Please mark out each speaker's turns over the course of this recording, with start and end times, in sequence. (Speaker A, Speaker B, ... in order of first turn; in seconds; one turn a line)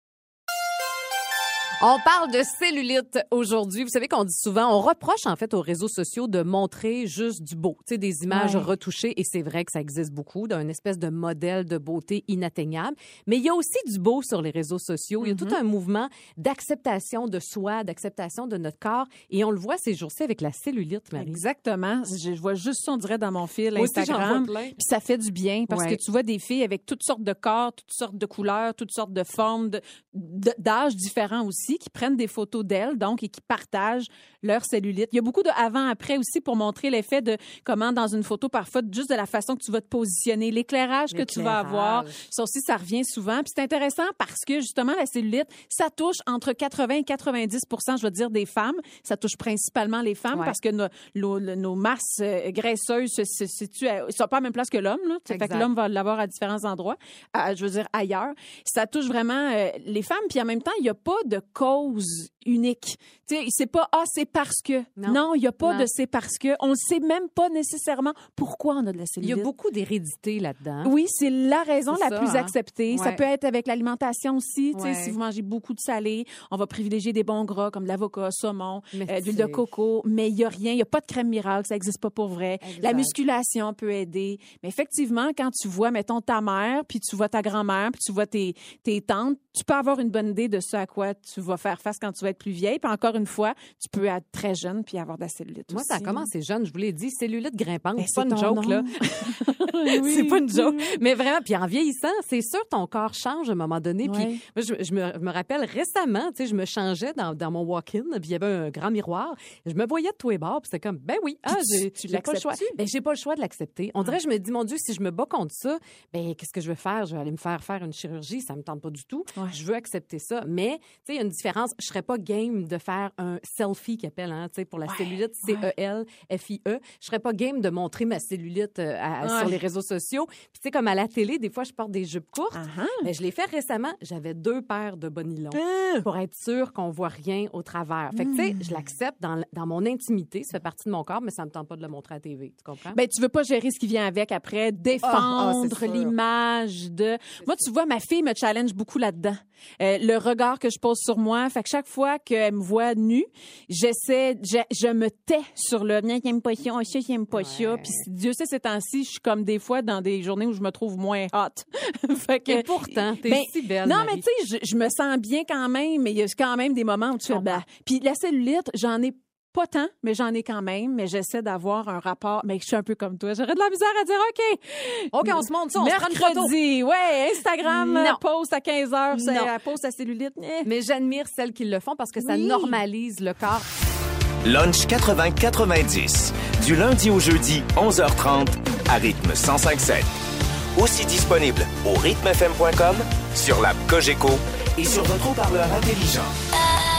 Speaker A: 1.8-21.4
Speaker B: 8.3-8.7
Speaker B: 15.2-15.6
Speaker B: 21.2-69.5
Speaker A: 23.7-24.8
Speaker A: 25.7-26.0
Speaker A: 41.1-42.2
Speaker A: 55.3-55.7
Speaker A: 65.0-65.9
Speaker A: 69.2-70.9
Speaker B: 70.8-96.3
Speaker A: 71.9-73.2
Speaker A: 74.7-75.2
Speaker A: 78.9-79.6
Speaker A: 82.6-83.2
Speaker A: 95.7-143.0
Speaker B: 98.0-101.0
Speaker B: 104.0-104.4
Speaker B: 111.5-112.8
Speaker B: 124.9-125.7
Speaker B: 129.2-129.6
Speaker B: 132.5-133.1
Speaker B: 135.5-136.1
Speaker B: 138.1-138.7
Speaker B: 142.9-180.7
Speaker A: 145.0-146.1
Speaker A: 157.3-158.0
Speaker A: 162.5-164.2
Speaker A: 167.3-167.6
Speaker A: 175.1-176.5
Speaker A: 177.6-178.2
Speaker A: 179.1-179.5
Speaker A: 180.6-183.7
Speaker B: 182.2-182.8
Speaker C: 184.4-190.1
Speaker C: 190.7-196.3